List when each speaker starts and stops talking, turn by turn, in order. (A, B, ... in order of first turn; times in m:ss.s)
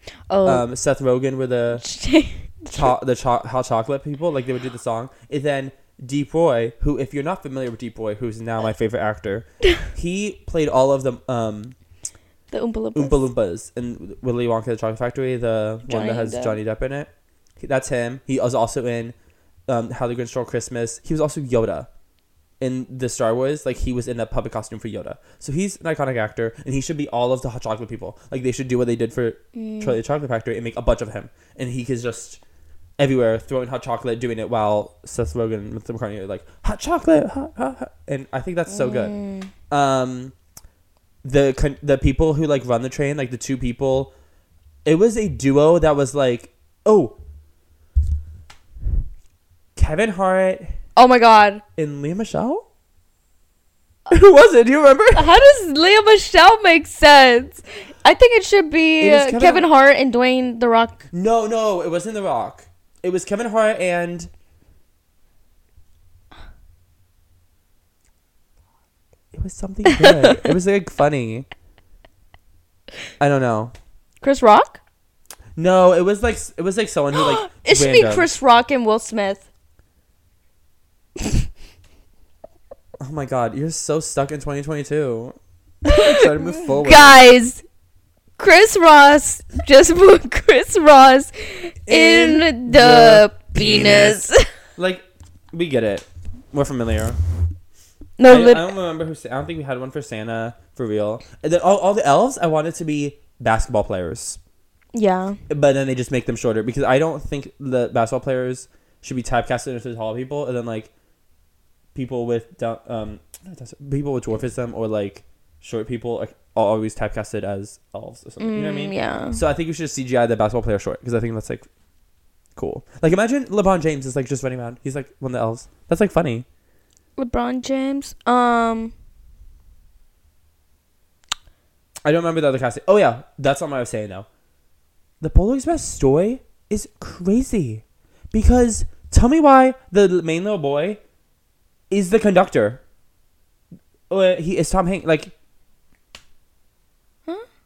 0:00.3-0:00.6 A
0:00.4-0:01.8 B
0:01.7-0:02.9 A
0:02.7-0:11.7 B
0:12.5-0:13.3 A
0:12.9-0:19.1 B
0:15.8-0:16.6 A
0:19.7-0:21.9 B
0:22.6-0:32.4 B
0:29.5-0:30.0 A
0:33.0-0:39.1 B
0:38.7-0:39.5 A
0:39.7-0:40.3 B
0:41.2-0:44.1 B
0:44.8-0:47.2 B
0:49.8-0:50.7 B
0:51.0-0:51.6 A
0:51.8-0:52.6 B
0:54.1-0:55.3 B
0:55.1-1:01.1 A
0:59.0-0:59.7 B
1:01.1-1:04.3 B
1:09.3-1:11.5 B
1:09.9-1:10.5 A
1:13.2-1:13.7 B
1:14.2-1:14.8 A
1:15.6-1:18.3 B
1:17.1-1:19.4 A
1:23.0-1:27.2 B
1:25.9-1:27.6 A
1:28.4-1:34.4 A
1:31.8-1:37.2 B
1:38.2-1:38.7 A
1:38.3-1:44.4 B
1:44.9-1:45.4 A
1:45.5-1:50.9 B
1:51.9-2:01.6 B
1:58.4-1:59.4 A
2:02.6-2:06.4 B
2:07.2-2:08.9 A
2:12.0-2:14.2 B
2:15.2-2:21.0 B
2:21.9-2:22.8 B
2:24.1-2:25.3 B